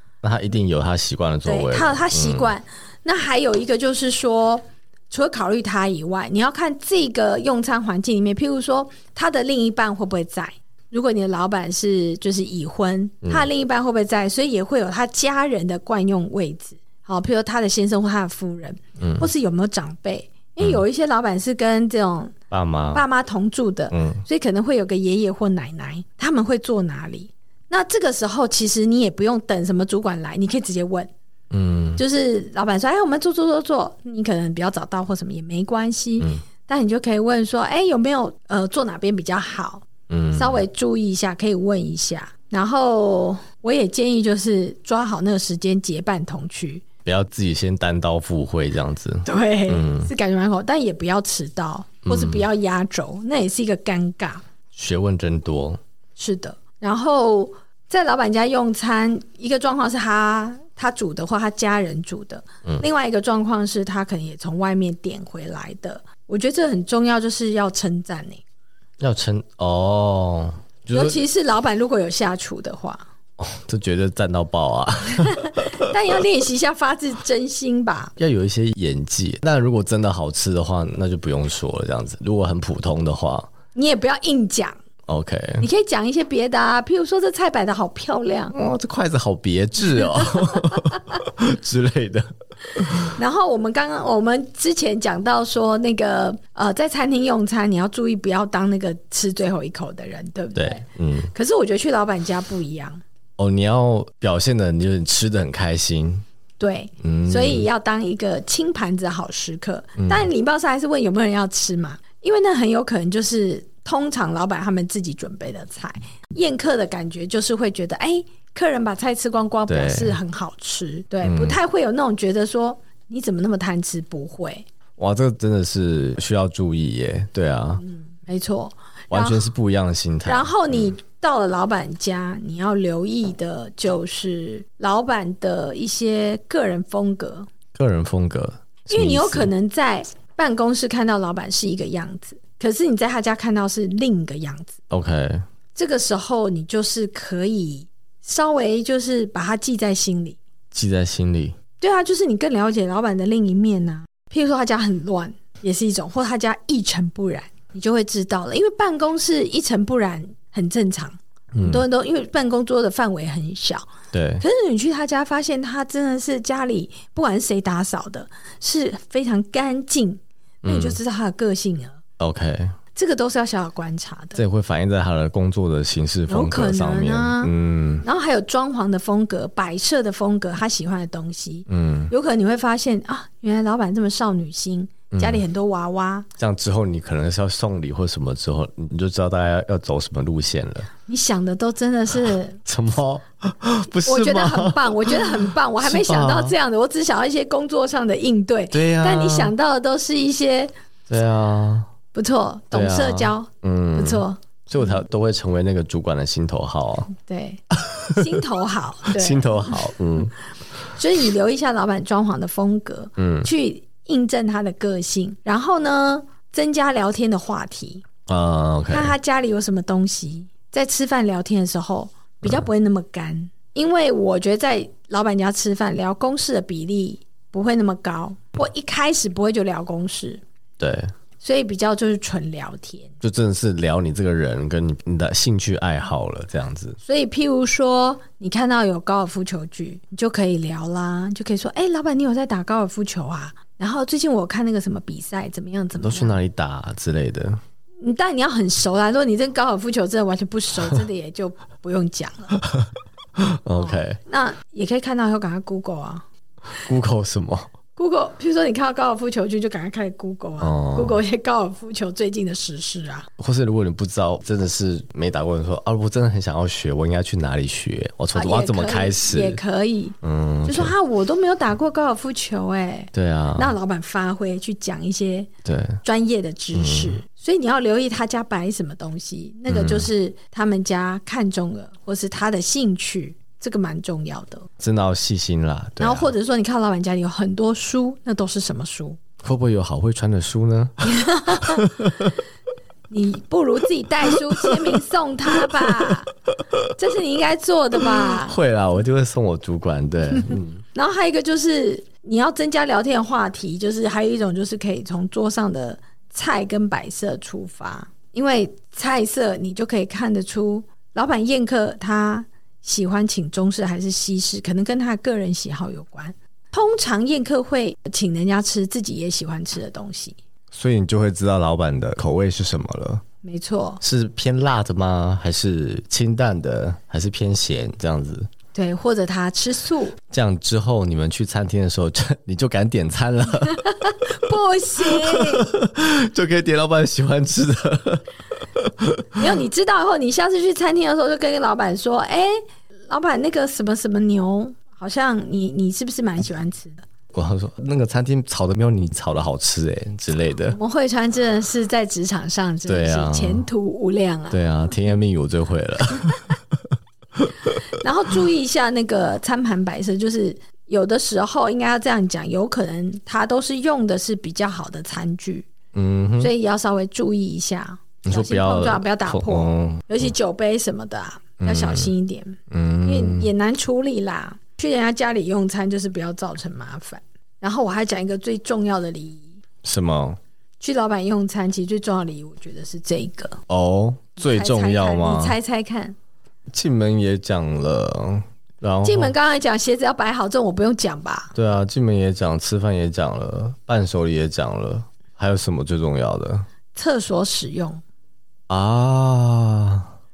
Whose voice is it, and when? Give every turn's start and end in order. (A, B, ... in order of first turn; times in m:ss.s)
0:00.2-0:02.5 A
0:01.4-0:22.3 B
0:19.0-0:19.3 A
0:22.5-0:23.0 A
0:22.9-0:31.1 B
0:23.9-0:24.2 A
0:31.5-0:32.0 A
0:32.0-0:46.8 B
0:36.2-0:36.4 A
0:40.1-0:40.6 A
0:47.0-0:50.1 A
0:49.2-0:54.4 B
0:52.1-0:52.5 A
0:54.7-0:55.8 A
0:56.2-1:08.4 B
1:09.0-1:11.2 A
1:10.9-1:13.1 B
1:13.4-1:15.9 A
1:15.2-1:18.1 B
1:18.2-1:23.5 A
1:23.7-1:24.8 B
1:25.1-1:25.6 A
1:25.6-1:28.6 B
1:28.5-1:33.1 A
1:30.0-1:31.0 B
1:33.2-1:43.0 B
1:40.6-1:41.3 A
1:43.4-1:46.2 A
1:46.6-2:04.7 B
1:47.0-1:47.7 A
1:50.0-1:50.3 A
1:59.7-2:00.2 A
2:01.2-2:01.6 A
2:05.0-2:07.8 A
2:07.8-2:09.5 B
2:09.1-2:10.9 A
2:10.2-2:17.5 B
2:17.7-2:19.5 A
2:18.9-2:24.8 B
2:24.9-2:25.4 A
2:25.8-2:30.4 B
2:30.7-2:31.6 A
2:31.8-2:43.9 B
2:41.5-2:41.8 A
2:44.1-2:44.4 A
2:44.4-2:52.0 B
2:50.6-2:51.0 A
2:52.2-2:52.8 A
2:53.0-2:54.4 B
2:54.4-2:58.0 A
2:56.3-3:06.3 B
3:01.7-3:02.1 A
3:05.1-3:05.4 A
3:06.4-3:10.9 A
3:11.1-3:12.6 B
3:12.6-3:16.6 A
3:14.0-3:20.7 B
3:18.7-3:19.5 A
3:21.1-3:21.9 A
3:22.1-3:24.4 B
3:22.7-3:27.1 A
3:27.2-3:29.8 B
3:27.7-3:28.2 A
3:29.1-3:30.3 A
3:30.9-3:38.0 B
3:33.2-3:33.5 A
3:38.3-3:39.1 A
3:38.9-3:50.4 B
3:50.8-3:51.1 A
3:51.4-3:53.1 B
3:53.2-3:57.0 A
3:57.0-4:06.4 B
4:06.0-4:07.6 A
4:08.0-4:12.6 B
4:12.6-4:14.2 A
4:13.8-4:16.2 B
4:16.8-4:17.7 A
4:18.0-4:23.3 B
4:20.6-4:21.2 A
4:23.4-4:29.6 A
4:28.4-4:35.5 B
4:30.2-4:30.9 A
4:33.1-4:33.8 A
4:35.6-4:36.0 A
4:36.0-4:44.7 B
4:36.7-4:37.2 A
4:39.7-4:40.1 A
4:44.8-4:46.3 A
4:46.0-4:49.2 B
4:49.4-4:52.4 A
4:51.0-4:51.9 B
4:53.1-4:56.3 B
4:54.3-4:54.9 A
4:55.6-4:56.1 A
4:57.0-4:58.6 B
4:58.0-5:00.8 A
5:00.9-5:20.4 B
5:20.7-5:23.2 A
5:23.4-5:24.0 B
5:24.0-5:28.5 A
5:28.7-5:30.2 B
5:30.3-5:34.1 A
5:33.7-5:35.7 B
5:35.0-5:39.4 A
5:39.4-5:47.1 B
5:47.3-5:50.8 A
5:50.7-5:54.6 B
5:52.9-5:53.6 A
5:54.5-5:57.7 A
5:58.0-6:05.7 B
6:05.9-6:06.5 A
6:06.4-6:19.6 B
6:08.2-6:10.3 A
6:11.6-6:12.1 A
6:12.7-6:13.5 A
6:19.8-6:20.4 A
6:20.8-6:23.6 B
6:23.7-6:25.6 A
6:24.4-6:26.2 B
6:26.7-6:29.3 A
6:29.0-6:31.5 B
6:31.6-6:36.7 A
6:36.9-6:38.0 B
6:38.7-6:40.1 A